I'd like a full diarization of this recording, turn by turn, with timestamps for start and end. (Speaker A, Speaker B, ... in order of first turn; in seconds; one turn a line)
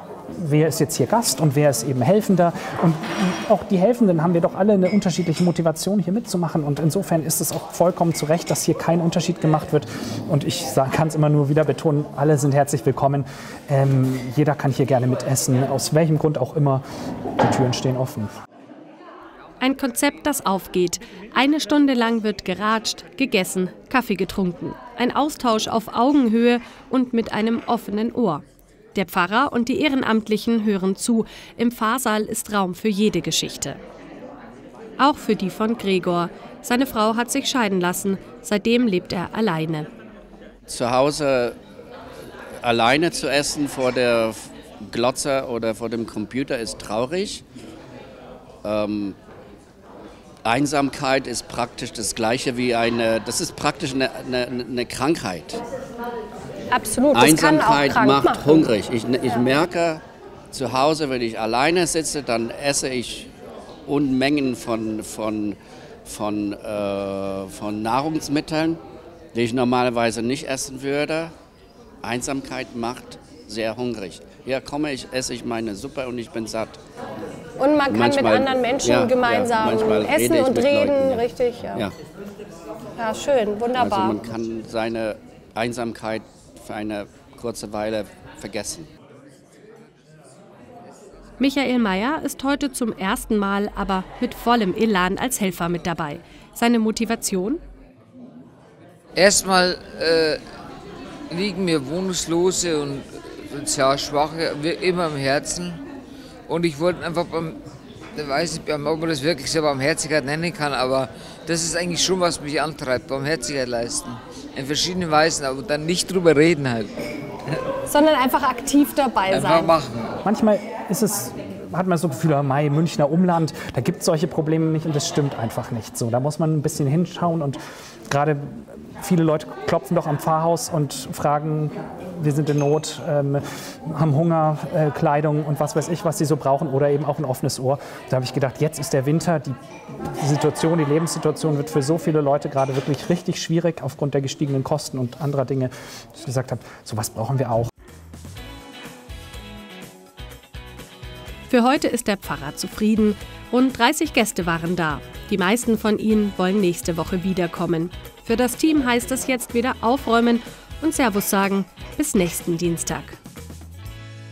Speaker A: 0.4-16.8
Speaker A: 17.4-18.3
Speaker B: 19.6-28.4
Speaker B: 28.9-33.8
Speaker B: 35.0-39.9
Speaker C: 40.7-41.5
Speaker C: 42.6-47.4
Speaker C: 48.6-49.2
Speaker C: 50.4-55.6
Speaker D: 56.7-58.7
Speaker C: 57.1-63.3
Speaker C: 63.9-68.8
Speaker C: 69.3-71.3
Speaker C: 72.0-76.8
Speaker D: 77.6-81.9
Speaker C: 77.9-81.9
Speaker D: 83.0-84.2
Speaker C: 83.7-88.9
Speaker B: 91.4-97.6
Speaker E: 99.2-100.4
Speaker E: 101.3-105.8
Speaker E: 106.5-107.6
Speaker E: 108.1-116.9
Speaker D: 117.8-119.8
Speaker E: 119.3-120.2
Speaker A: 120.2-147.7
Speaker B: 151.5-163.2